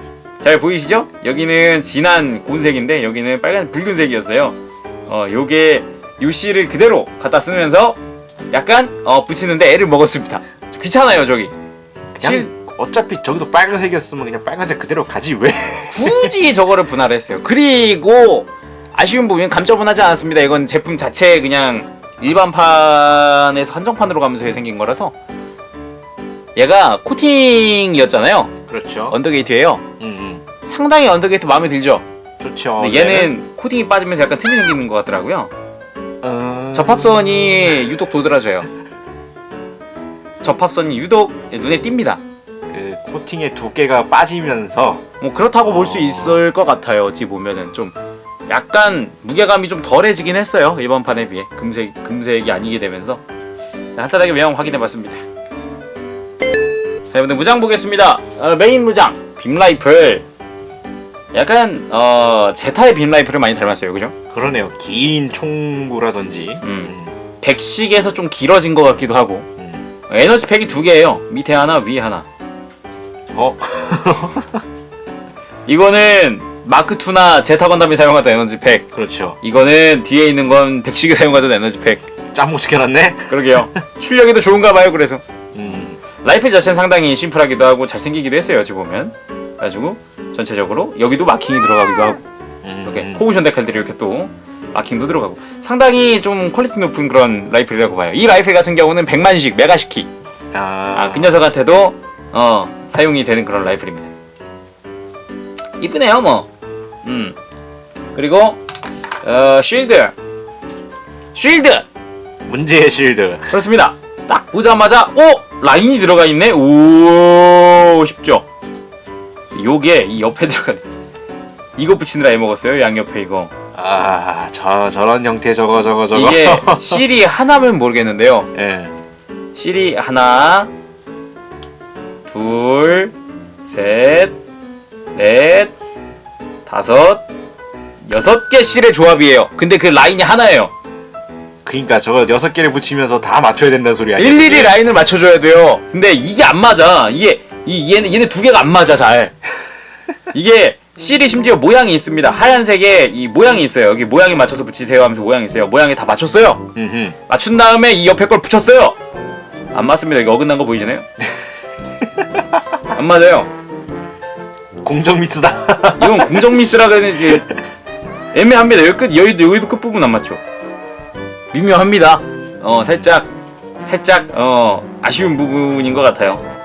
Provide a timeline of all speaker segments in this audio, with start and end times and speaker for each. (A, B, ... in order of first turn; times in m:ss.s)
0:00.4-0:08.0 A
0:08.5-0:11.5 A
0:12.1-0:16.3 B
0:12.2-0:12.5 A
0:15.9-0:25.1 A
0:26.6-0:28.5 A
0:28.7-0:29.2 B
0:29.1-0:29.8 A
0:30.0-0:30.4 B
0:30.6-0:32.0 A
0:32.4-0:33.3 B
0:32.8-0:35.5 A
0:36.2-0:37.3 B
0:36.7-0:38.7 A
0:40.4-0:42.2 A
0:42.7-0:45.0 B
0:45.2-0:47.9 A
0:45.6-0:46.4 B
0:48.5-0:53.2 A
0:53.9-0:55.2 A
0:57.0-1:00.2 A
1:01.3-1:04.1 A
1:04.3-1:07.1 B
1:06.6-1:09.5 A
1:09.6-1:09.8 B
1:10.1-1:12.3 A
1:13.3-1:14.6 B
1:15.6-1:18.9 A
1:18.9-1:19.4 B
1:19.4-1:22.1 A
1:22.3-1:23.7 B
1:23.3-1:25.2 A
1:25.5-1:26.0 B
1:26.2-1:32.2 A
1:32.6-1:33.2 B
1:32.8-1:40.1 A
1:40.5-1:41.4 B
1:40.9-1:44.1 A
1:45.8-1:46.5 A
1:47.0-1:47.4 A
1:48.1-1:48.6 A
1:49.2-1:50.1 A
1:51.3-1:51.9 A
1:52.4-1:53.6 B
1:53.5-1:58.4 A
1:59.5-2:00.8 A
2:01.8-2:03.5 A
2:03.7-2:07.0 B
2:06.1-2:08.5 A
2:08.5-2:08.9 B
2:09.5-2:10.7 A
2:12.3-2:13.1 A
2:13.7-2:14.4 A
2:15.1-2:15.7 A
2:16.6-2:17.2 A
2:18.1-2:20.7 A
2:21.6-2:24.8 B
2:24.2-2:29.3 A
2:30.3-2:36.7 A
2:36.7-2:37.2 B
2:37.3-2:39.0 A
2:39.7-2:41.0 A
2:42.9-2:43.5 A
2:44.8-2:46.7 B
2:46.0-2:47.5 A
2:48.3-2:50.4 A
2:51.5-2:56.4 A